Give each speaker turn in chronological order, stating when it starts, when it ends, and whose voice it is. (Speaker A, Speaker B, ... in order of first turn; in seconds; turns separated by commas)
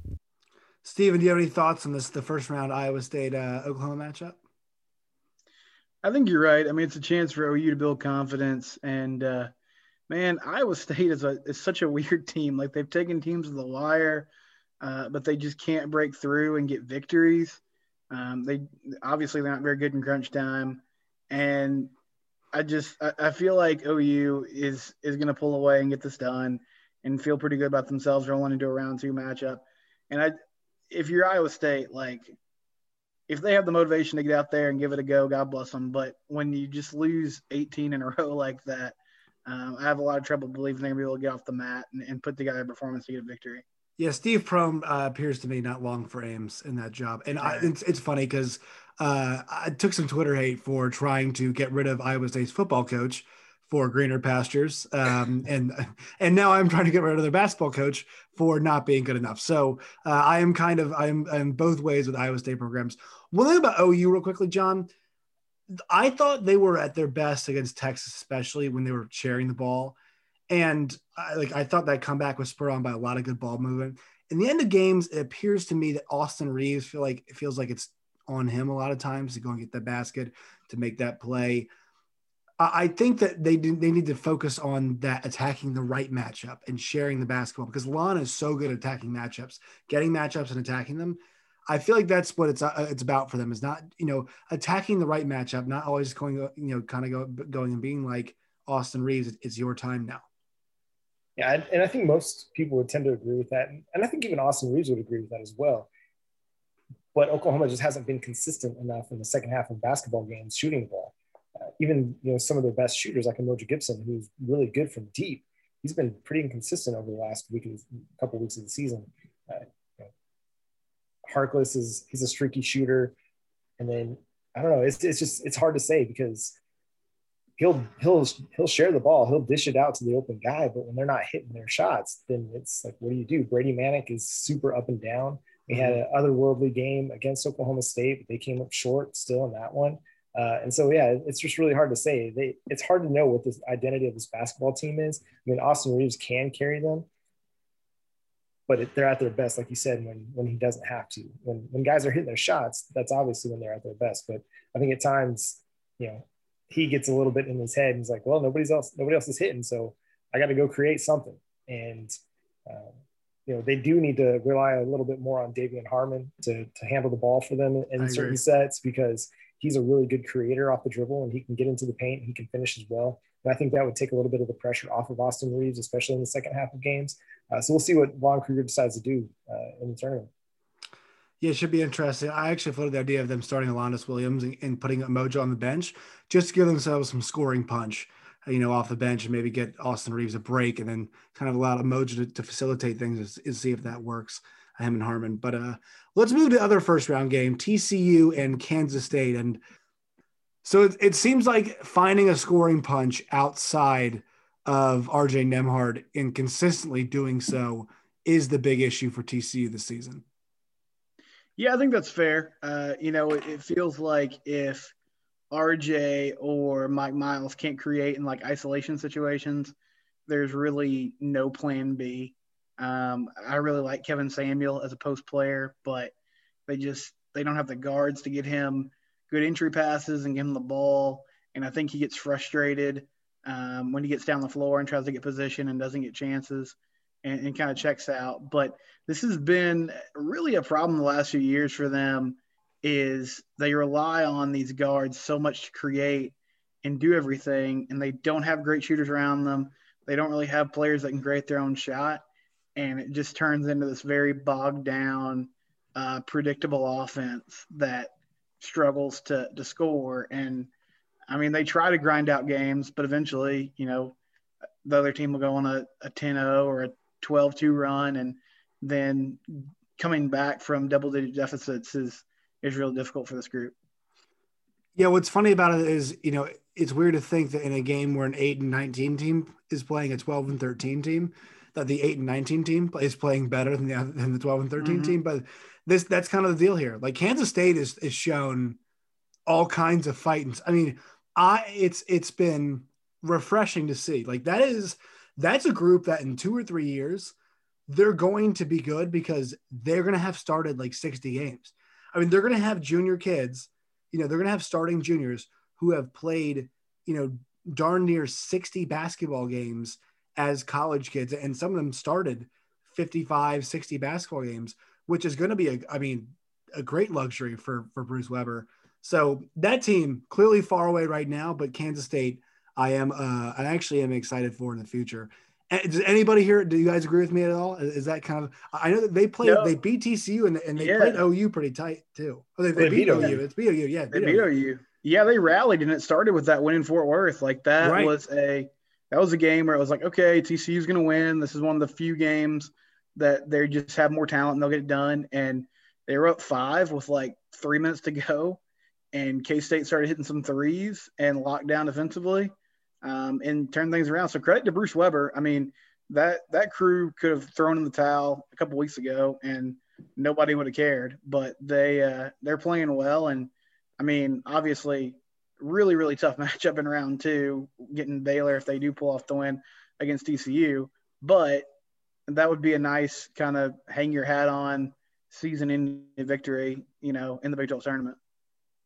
Speaker A: 0.8-4.4, Speaker B: 6.0-9.5, Speaker B: 10.1-14.3, Speaker B: 14.8-21.9, Speaker B: 22.5-30.4, Speaker B: 30.9-32.4, Speaker B: 33.3-43.6, Speaker A: 44.0-64.9, Speaker B: 47.4-47.7, Speaker A: 65.8-70.0, Speaker A: 70.5-81.7, Speaker A: 82.6-100.3, Speaker C: 101.4-105.9, Speaker C: 107.1-120.1, Speaker C: 121.3-123.2, Speaker C: 123.8-126.6, Speaker C: 127.6-147.1, Speaker C: 148.7-162.1, Speaker C: 162.7-162.9, Speaker C: 163.5-180.3, Speaker A: 168.0-168.4, Speaker A: 181.4-199.6, Speaker A: 200.6-210.2, Speaker B: 211.6-214.9, Speaker B: 215.5-219.7, Speaker B: 220.3-226.1, Speaker B: 226.7-252.2, Speaker B: 252.8-260.7, Speaker B: 261.3-264.2, Speaker B: 264.9-269.4, Speaker B: 270.0-273.7, Speaker A: 275.0-288.8, Speaker B: 284.8-285.2, Speaker A: 289.5-297.3, Speaker A: 297.9-334.4, Speaker B: 329.4-329.7, Speaker B: 330.8-331.2, Speaker C: 332.8-333.4, Speaker B: 334.1-348.6, Speaker A: 337.8-338.1, Speaker B: 349.1-371.7, Speaker B: 372.3-378.2